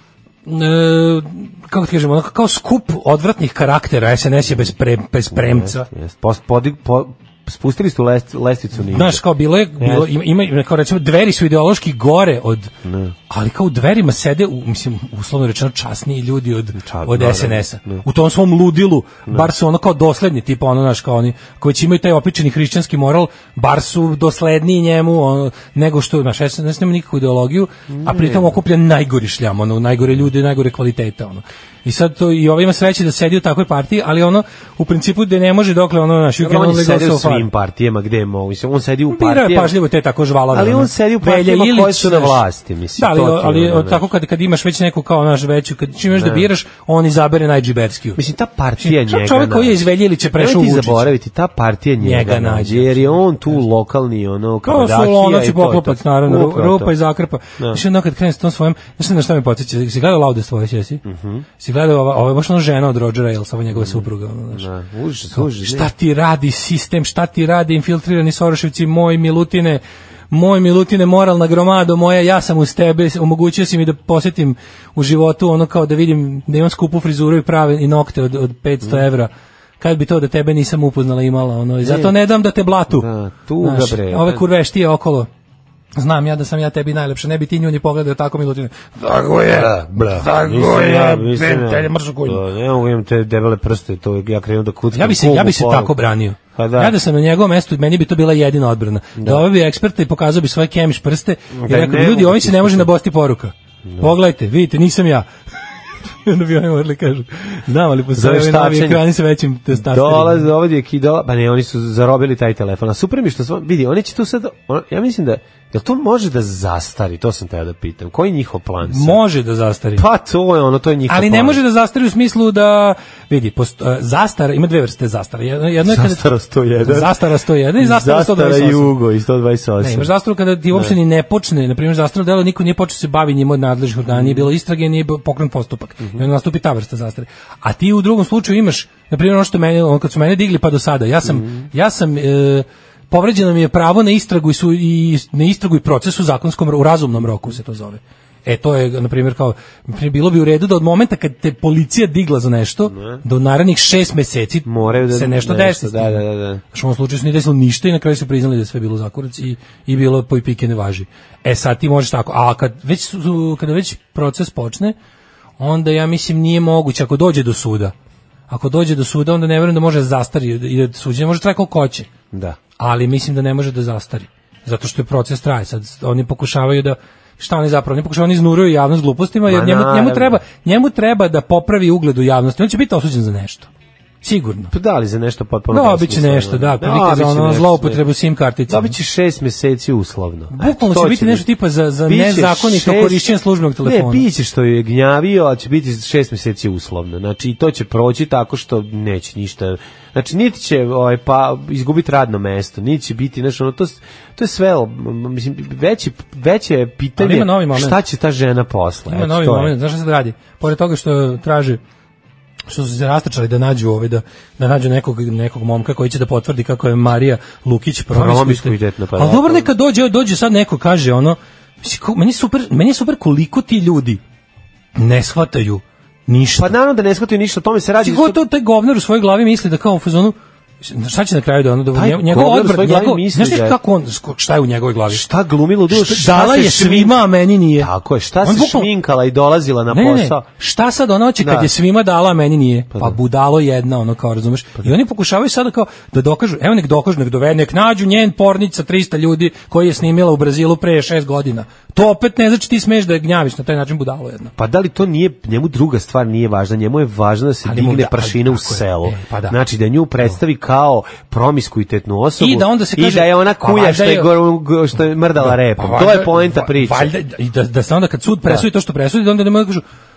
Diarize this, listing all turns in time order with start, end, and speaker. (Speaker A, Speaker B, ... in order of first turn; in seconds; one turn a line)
Speaker A: 0.5-5.9
Speaker B: 5.3-9.2
Speaker A: 8.9-12.7
Speaker B: 9.8-10.1
Speaker B: 12.8-13.1
Speaker A: 13.3-37.5
Speaker B: 16.8-18.1
Speaker B: 27.9-28.6
Speaker B: 36.4-39.7
Speaker A: 39.1-42.4
Speaker B: 40.5-44.0
Speaker A: 43.0-48.2
Speaker B: 46.1-46.5
Speaker B: 48.2-49.8
Speaker A: 48.8-51.1
Speaker B: 50.3-56.9
Speaker A: 52.0-53.6
Speaker A: 54.6-61.0
Speaker B: 61.0-61.5
Speaker A: 61.6-64.7
Speaker B: 63.7-65.9
Speaker A: 65.3-83.1
Speaker B: 81.8-82.1
Speaker B: 82.9-84.5
Speaker A: 83.6-85.3
Speaker A: 85.9-92.4
Speaker B: 89.5-95.9
Speaker A: 94.9-105.3
Speaker B: 96.5-96.9
Speaker B: 99.2-99.4
Speaker B: 101.5-102.9
Speaker B: 103.8-104.1
Speaker A: 106.2-110.5
Speaker B: 108.1-109.0
Speaker B: 109.7-119.2
Speaker A: 118.8-120.0
Speaker B: 120.0-121.6
Speaker A: 121.1-126.3
Speaker B: 125.8-127.2
Speaker A: 126.8-128.9
Speaker B: 127.8-130.1
Speaker A: 129.8-164.9
Speaker B: 134.1-134.5
Speaker B: 141.2-141.7
Speaker B: 152.9-153.2
Speaker B: 154.7-156.6
Speaker A: 165.6-167.9
Speaker A: 168.5-172.1
Speaker B: 172.3-172.6
Speaker A: 172.8-183.7
Speaker B: 179.4-180.4
Speaker A: 184.2-184.7
Speaker B: 184.7-188.0
Speaker A: 185.7-188.9
Speaker B: 188.7-191.5
Speaker A: 190.5-194.2
Speaker B: 192.1-193.3
Speaker B: 193.8-209.7
Speaker A: 207.2-208.0
Speaker A: 209.1-211.8
Speaker A: 212.7-224.2
Speaker B: 218.1-219.7
Speaker A: 224.9-226.7
Speaker B: 226.6-228.4
Speaker A: 228.0-235.2
Speaker B: 231.9-233.8
Speaker B: 235.1-237.2
Speaker A: 235.9-237.9
Speaker B: 237.8-240.4
Speaker A: 238.4-238.9
Speaker A: 239.9-254.5
Speaker B: 241.4-241.7
Speaker B: 242.9-243.2
Speaker B: 254.6-267.1
Speaker A: 257.6-259.6
Speaker A: 262.4-264.3
Speaker A: 265.4-269.8